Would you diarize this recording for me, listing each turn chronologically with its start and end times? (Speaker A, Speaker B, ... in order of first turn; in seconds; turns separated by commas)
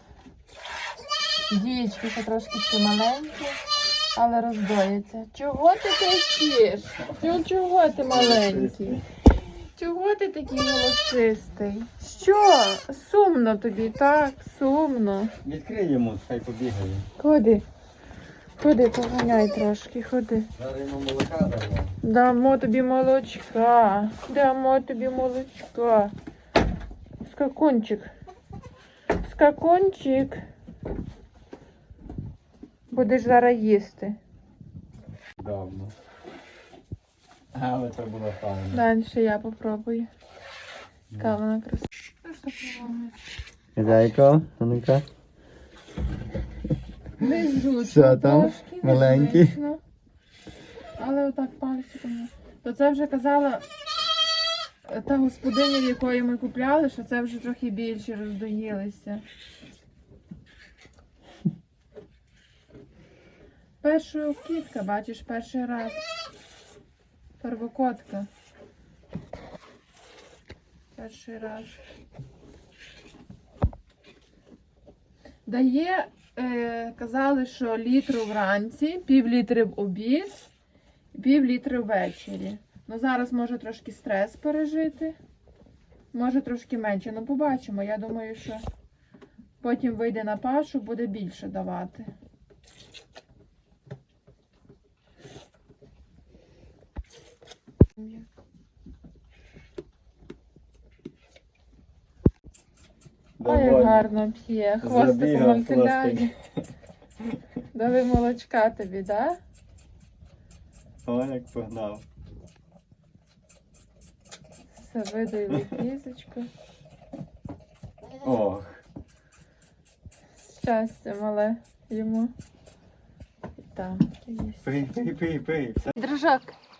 Speaker A: 1.5-3.6, Speaker A: 4.1-9.0, Speaker B: 8.1-9.0, Speaker A: 9.8-15.3, Speaker B: 15.4-17.1, Speaker A: 17.2-17.6, Speaker A: 18.6-20.5, Speaker B: 20.6-22.0, Speaker A: 22.0-26.1, Speaker A: 27.2-28.1, Speaker A: 29.2-30.4, Speaker A: 32.9-34.2, Speaker B: 35.4-35.9, Speaker B: 37.5-38.9, Speaker A: 38.7-40.1, Speaker B: 41.1-41.4, Speaker A: 41.2-43.1, Speaker B: 43.8-45.0, Speaker A: 47.2-49.8, Speaker B: 47.8-49.6, Speaker A: 51.0-53.6, Speaker A: 54.8-59.2, Speaker A: 63.8-66.0, Speaker A: 67.4-68.3, Speaker A: 71.0-71.8, Speaker A: 75.5-80.5, Speaker A: 81.1-85.2, Speaker A: 86.1-88.6, Speaker A: 89.6-92.1, Speaker A: 98.0-98.2, Speaker B: 103.4-104.0, Speaker A: 103.4-106.3, Speaker B: 104.8-106.3, Speaker A: 107.7-109.4, Speaker B: 111.0-112.0, Speaker A: 114.7-116.5, Speaker B: 118.2-118.8, Speaker A: 120.5-122.3, Speaker A: 123.6-124.6, Speaker B: 124.6-125.9, Speaker A: 125.9-126.5